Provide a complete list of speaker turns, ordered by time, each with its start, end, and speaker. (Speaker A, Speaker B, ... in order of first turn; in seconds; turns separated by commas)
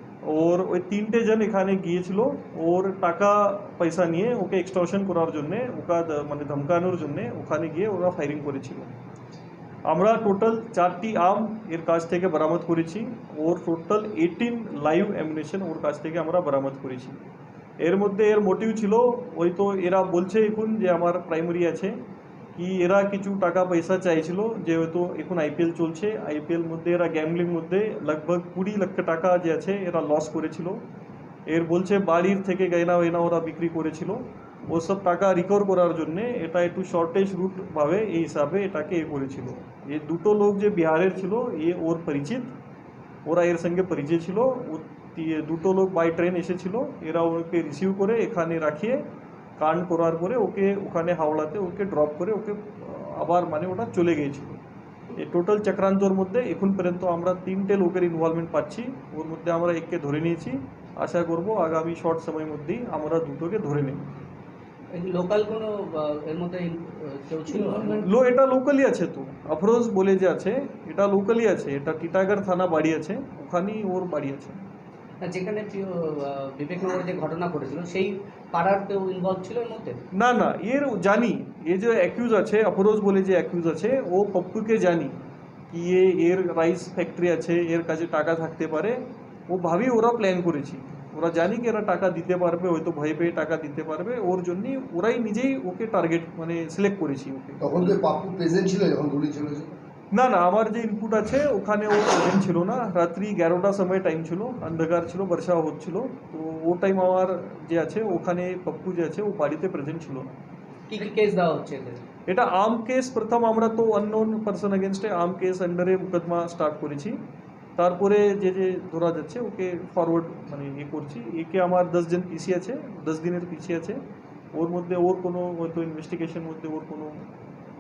Speaker A: 0.2-8.9, Speaker A: 9.9-17.2, Speaker A: 17.8-21.9, Speaker A: 22.6-30.8, Speaker A: 31.5-42.5, Speaker A: 43.3-49.0, Speaker A: 49.6-54.6, Speaker A: 55.2-64.1, Speaker B: 64.9-68.1, Speaker A: 67.6-74.6, Speaker B: 75.2-80.0, Speaker A: 80.1-85.2, Speaker A: 85.7-89.0, Speaker A: 89.5-97.6, Speaker C: 97.6-99.7, Speaker A: 100.1-110.4, Speaker B: 110.9-112.0, Speaker A: 112.3-117.2, Speaker A: 117.8-124.0, Speaker A: 124.5-127.3